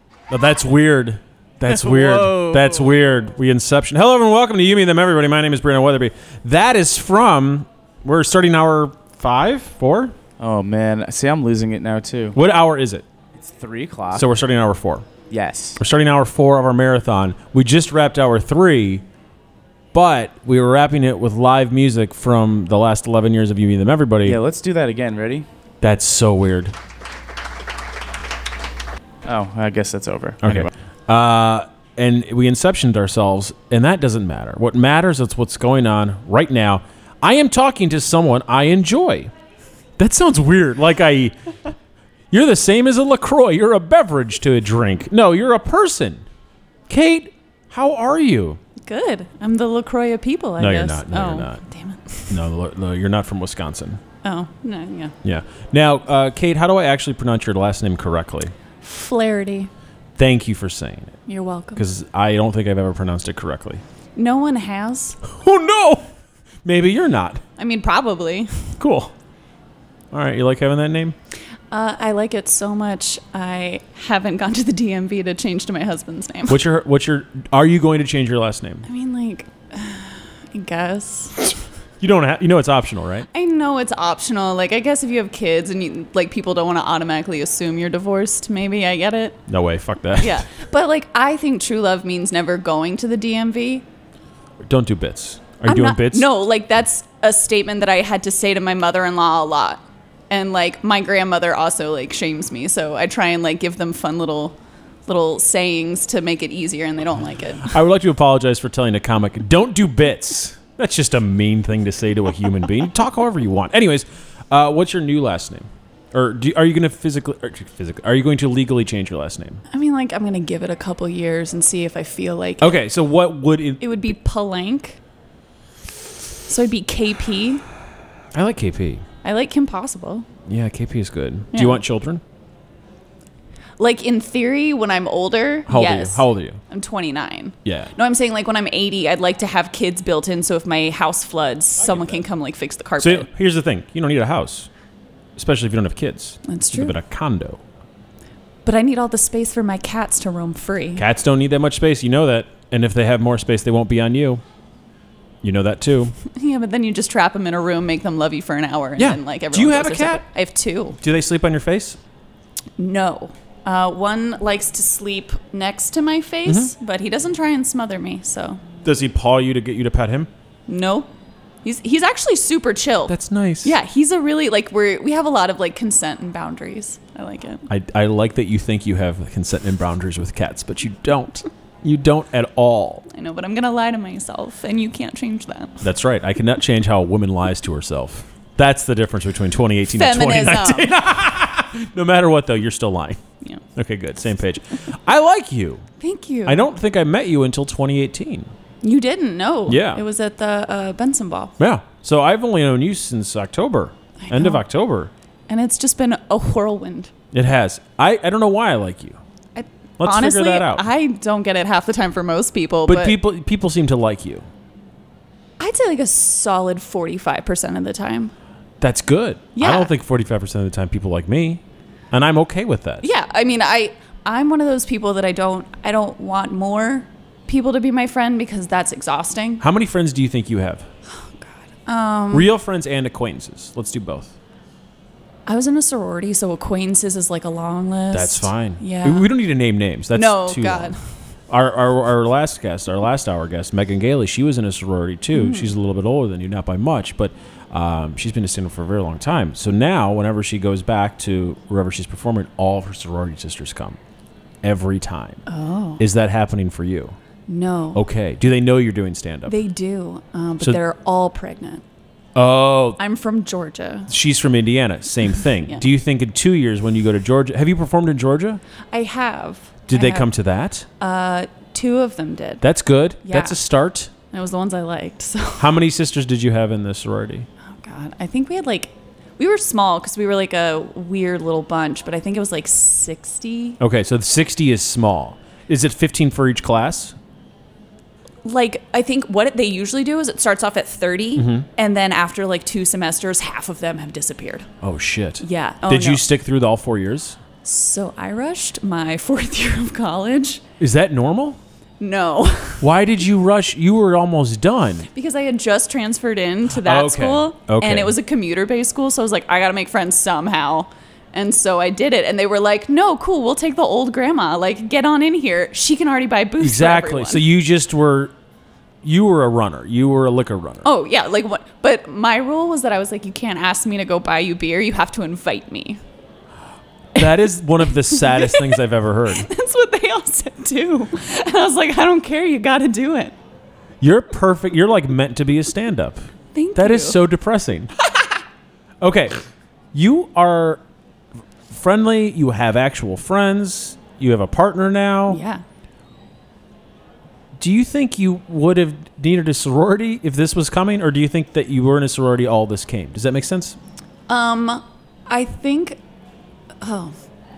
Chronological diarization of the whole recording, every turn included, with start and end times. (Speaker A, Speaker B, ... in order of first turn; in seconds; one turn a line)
Speaker A: 0.3-10.2
Speaker B: 1.7-2.9
Speaker B: 10.4-12.4
Speaker A: 12.3-13.1
Speaker B: 13.4-14.3
Speaker A: 14.1-15.1
Speaker B: 15.3-15.8
Speaker A: 15.8-19.1
Speaker A: 19.9-24.4
Speaker B: 24.2-25.5
Speaker A: 25.8-26.7
Speaker B: 29.2-30.7
Speaker A: 30.4-39.3
Speaker A: 40.0-41.4
Speaker A: 42.3-46.2
Speaker A: 46.9-48.6
Speaker C: 48.8-52.4
Speaker A: 50.6-51.6
Speaker A: 52.3-54.0
Speaker C: 54.2-55.1
Speaker A: 55.2-58.5
Speaker C: 58.8-59.7
Speaker A: 60.2-61.2
Speaker C: 61.3-61.9
Speaker A: 61.8-63.8
Speaker C: 64.2-65.2
Speaker A: 65.2-66.1
Speaker A: 66.7-67.4
Speaker C: 67.6-68.7
Speaker A: 68.8-69.1
Speaker A: 70.1-71.2
Speaker C: 71.7-76.6
Speaker A: 76.5-78.9
Speaker C: 78.8-81.6
Speaker A: 82.0-83.3
Speaker C: 83.3-89.5
Speaker A: 89.5-90.5
Speaker C: 90.2-93.8
Speaker A: 94.6-96.3
Speaker C: 95.7-107.8
Speaker A: 107.7-119.6
Speaker C: 119.7-122.8
Speaker A: 122.6-124.1
Speaker C: 123.8-125.0
Speaker C: 126.5-127.6
Speaker A: 128.3-129.0
Speaker C: 129.2-130.3
Speaker A: 130.5-132.2
Speaker C: 131.5-131.8
Speaker C: 133.8-143.3
Speaker A: 135.7-136.6
Speaker A: 137.7-137.9
Speaker A: 141.8-142.2
Speaker A: 143.0-144.7
Speaker A: 145.4-147.6
Speaker C: 146.5-146.9
Speaker C: 148.7-151.1
Speaker A: 151.0-154.4
Speaker A: 155.4-156.2
Speaker C: 156.3-161.0
Speaker A: 159.0-160.2
Speaker A: 161.0-162.0
Speaker C: 162.8-168.6
Speaker A: 166.5-166.7
Speaker A: 168.8-170.3
Speaker C: 170.7-171.1
Speaker C: 171.6-177.7
Speaker A: 173.1-173.8
Speaker A: 177.7-183.1
Speaker C: 183.1-185.8
Speaker A: 185.8-193.2
Speaker C: 189.9-190.9
Speaker A: 193.8-195.8
Speaker C: 196.0-196.7
Speaker A: 196.4-198.5
Speaker C: 198.8-201.5
Speaker A: 199.7-200.0
Speaker A: 201.6-205.1
Speaker C: 204.2-204.6
Speaker C: 205.5-207.1
Speaker A: 207.3-209.2
Speaker C: 209.6-213.2
Speaker A: 210.0-210.8
Speaker A: 212.9-214.5
Speaker C: 215.6-218.3
Speaker A: 218.8-223.0
Speaker C: 219.6-219.9
Speaker C: 223.0-229.6
Speaker A: 229.6-230.9
Speaker C: 231.1-232.5
Speaker A: 232.3-234.3
Speaker C: 235.5-239.3
Speaker A: 238.1-240.9
Speaker C: 240.1-241.0
Speaker A: 241.5-254.0
Speaker C: 245.3-245.7
Speaker A: 254.6-255.4
Speaker C: 255.5-256.0
Speaker A: 256.0-257.2
Speaker C: 257.5-258.0
Speaker A: 257.9-259.6
Speaker C: 259.5-261.8
Speaker A: 262.4-263.0
Speaker C: 263.0-264.1
Speaker A: 264.1-268.6
Speaker C: 268.9-270.3
Speaker A: 269.9-270.9
Speaker C: 271.0-272.6
Speaker A: 272.6-274.1
Speaker C: 273.2-273.6
Speaker C: 274.3-275.7
Speaker A: 275.6-277.5
Speaker C: 277.7-283.8
Speaker A: 283.8-287.2
Speaker C: 288.4-294.7
Speaker A: 291.4-291.7
Speaker A: 294.8-297.4
Speaker C: 295.4-296.2
Speaker C: 297.6-300.6
Speaker A: 300.8-301.6
Speaker C: 302.0-302.9
Speaker A: 302.8-305.1
Speaker C: 305.1-317.4
Speaker A: 306.8-308.2
Speaker A: 316.6-318.3
Speaker A: 319.0-320.9
Speaker C: 320.8-326.0
Speaker A: 327.2-329.5
Speaker C: 327.9-333.3
Speaker A: 334.0-337.9
Speaker C: 336.5-337.2
Speaker A: 339.0-339.4
Speaker A: 339.9-340.8
Speaker A: 341.7-345.4
Speaker C: 345.3-345.6
Speaker A: 347.6-353.8
Speaker C: 354.3-356.0
Speaker C: 356.8-357.2